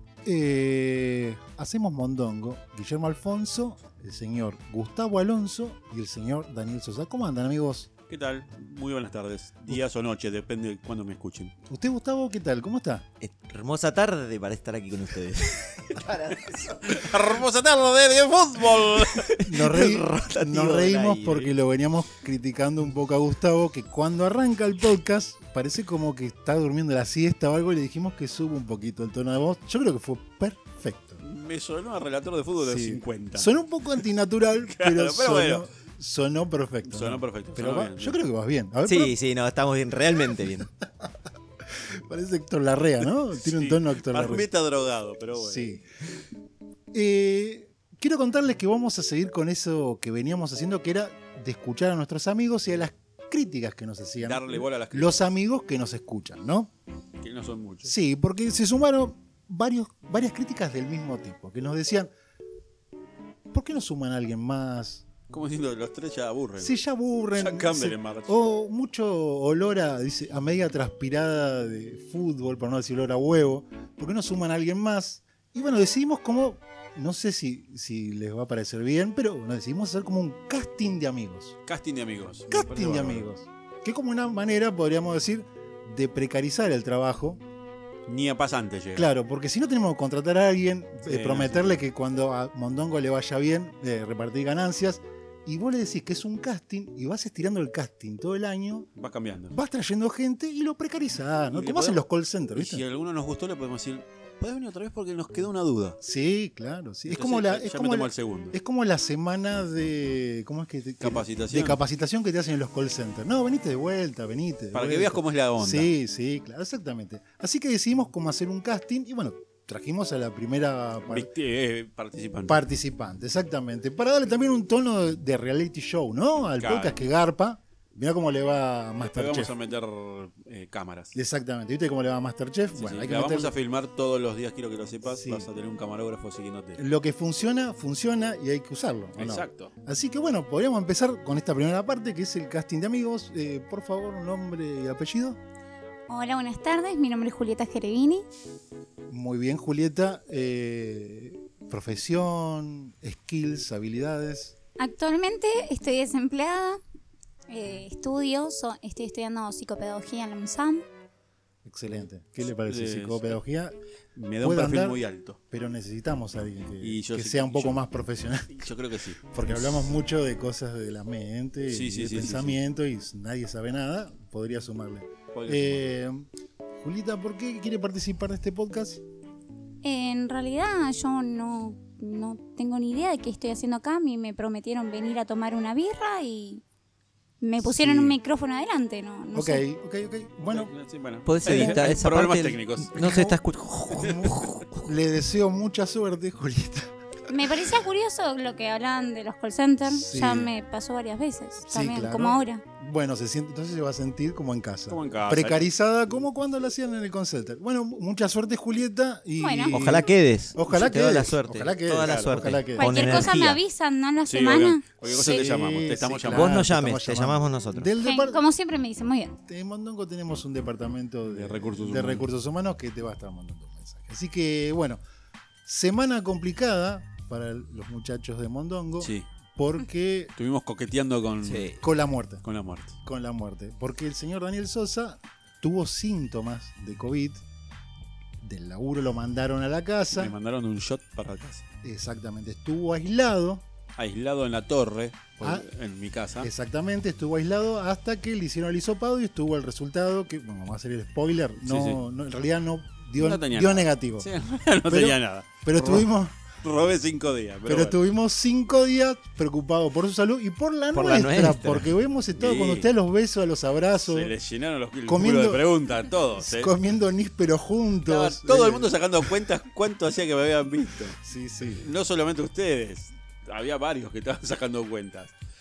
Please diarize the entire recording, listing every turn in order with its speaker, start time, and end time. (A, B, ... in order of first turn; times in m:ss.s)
0:00.2-0:07.9 A
0:08.1-0:11.5 B
0:11.7-0:13.0 A
0:13.2-0:17.2 C
0:16.8-0:19.4 B
0:18.9-0:21.5 C
0:19.4-0:31.2 A
0:31.2-0:33.5 B
0:32.6-0:39.2 A
0:34.7-0:35.6 B
0:36.9-0:38.2 B
0:38.8-0:40.7 C
0:41.7-0:44.5 A
0:43.4-0:45.8 B
0:45.4-0:45.8 A
0:46.9-0:56.7 A
0:54.2-0:55.3 B
0:57.2-0:57.9 B
0:57.8-1:02.1 A
1:03.5-1:05.0 A
1:05.3-1:06.8 B
1:06.6-1:21.6 A
1:07.3-1:08.4 B
1:21.7-1:23.3 B
1:22.5-1:27.4 A
1:28.1-1:29.1 B
1:29.0-1:38.9 A
1:31.1-1:31.8 B
1:39.0-1:39.6 B
1:39.5-1:42.8 A
1:41.5-1:42.0 B
1:42.5-1:46.0 B
1:46.0-2:01.3 A
1:47.1-1:48.6 B
1:51.0-1:51.8 B
1:54.7-1:55.9 B
2:01.1-2:02.6 B
2:02.5-2:09.5 A
2:06.6-2:07.0 B
2:09.0-2:11.2 B
2:11.2-2:13.5 A
2:12.8-2:16.8 B
2:15.1-2:15.5 A
2:16.8-2:25.4 A
2:19.2-2:19.7 B
2:26.1-2:28.3 D
2:29.1-2:34.5 A
2:34.8-2:36.8 D
2:37.5-2:40.9 D
2:41.6-2:43.8 A
2:42.7-2:43.4 B
2:44.2-2:45.4 B
2:44.4-2:48.7 A
2:46.8-2:47.8 B
2:48.5-2:49.9 B
2:49.3-2:56.3 A
2:51.7-2:52.6 B
2:55.3-2:56.0 B
2:56.8-2:59.0 A
2:59.8-3:06.6 D
3:07.4-3:09.6 D
3:07.6-3:08.2 A
3:09.3-3:10.7 A
3:10.5-3:13.3 B
3:11.3-3:14.9 C
3:11.5-3:11.8 A
3:13.0-3:13.4 A
3:13.9-3:16.9 A
3:14.0-3:14.3 B
3:17.3-3:22.6 D
3:19.9-3:20.5 A
3:21.6-3:33.3 A
3:24.9-3:25.7 B
3:29.4-3:29.8 D
3:29.7-3:33.6 C
3:32.0-3:32.6 B
3:32.8-3:35.5 D
3:34.3-3:36.6 B
3:35.1-3:38.4 A
3:36.3-3:37.9 C
3:38.0-3:39.4 D
3:39.5-3:45.0 A
3:41.3-3:42.3 B
3:45.6-3:50.3 A
3:49.0-3:49.2 B
3:50.4-3:51.8 B
3:51.4-3:51.8 C
3:51.8-3:52.4 A
3:52.4-3:53.0 B
3:53.0-3:57.4 A
3:58.4-4:00.4 A
4:00.2-4:01.6 B
4:01.8-4:03.6 A
4:04.0-4:06.5 B
4:06.4-4:14.3 A
4:11.6-4:12.0 B
4:13.2-4:16.1 B
4:14.9-4:16.4 A
4:16.6-4:18.0 B
4:17.7-4:24.3 A
4:20.9-4:21.9 C
4:22.4-4:22.9 B
4:24.0-4:26.7 B
4:25.1-4:25.6 A
4:26.4-4:29.3 A
4:28.1-4:35.3 B
4:31.2-4:31.8 A